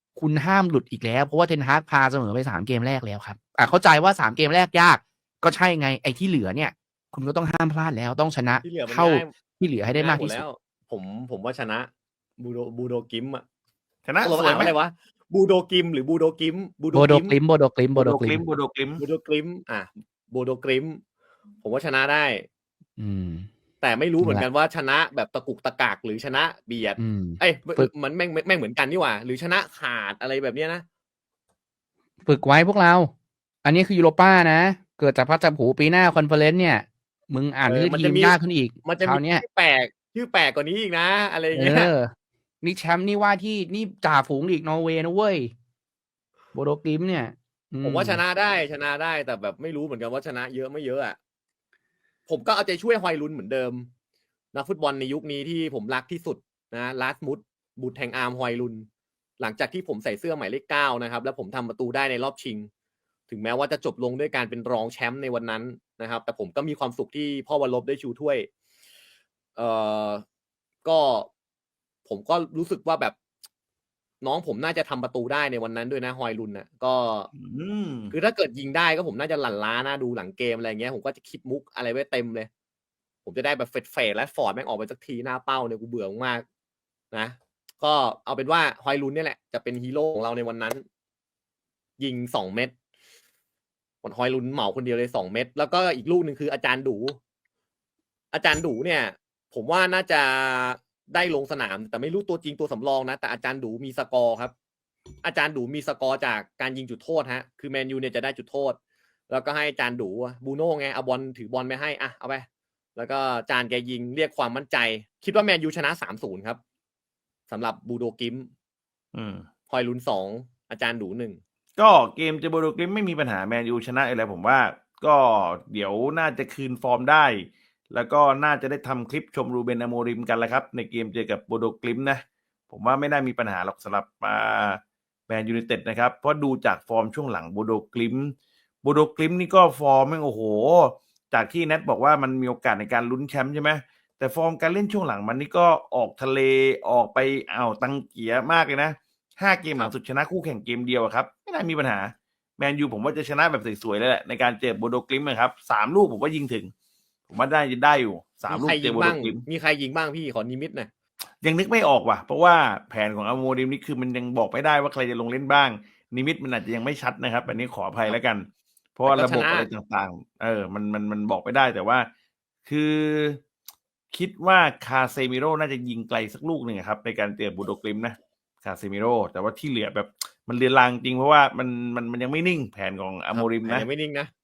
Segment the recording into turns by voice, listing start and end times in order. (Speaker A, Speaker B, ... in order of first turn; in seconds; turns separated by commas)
Speaker A: 0.2-10.4, Speaker B: 8.6-9.3, Speaker B: 9.9-13.4, Speaker C: 14.1-14.7, Speaker B: 14.2-17.4, Speaker A: 16.9-18.4, Speaker C: 18.0-19.0, Speaker B: 19.0-21.0, Speaker B: 21.6-22.5, Speaker A: 23.0-23.5, Speaker B: 23.8-30.9, Speaker A: 27.0-27.9, Speaker A: 32.2-33.1, Speaker A: 33.6-39.4, Speaker B: 37.7-41.9, Speaker A: 41.5-45.5, Speaker A: 46.5-48.2, Speaker B: 47.8-51.2, Speaker B: 52.3-53.9, Speaker B: 54.5-58.9, Speaker B: 59.4-62.7, Speaker B: 63.3-68.5, Speaker B: 69.6-70.2, Speaker B: 70.8-71.3, Speaker B: 72.1-73.2, Speaker B: 74.2-77.3, Speaker C: 77.3-78.1, Speaker B: 78.1-82.5, Speaker B: 83.2-86.5, Speaker B: 87.1-90.8, Speaker B: 92.0-92.7, Speaker B: 94.0-97.2, Speaker B: 98.3-104.5, Speaker B: 105.2-108.8, Speaker B: 109.3-116.6, Speaker B: 117.5-118.5, Speaker C: 119.1-119.5, Speaker B: 119.7-121.4, Speaker C: 121.8-156.7, Speaker C: 157.3-159.4, Speaker B: 158.5-160.9, Speaker C: 161.4-172.1, Speaker B: 169.1-169.7, Speaker C: 172.7-173.4, Speaker C: 174.1-183.9, Speaker B: 183.3-184.3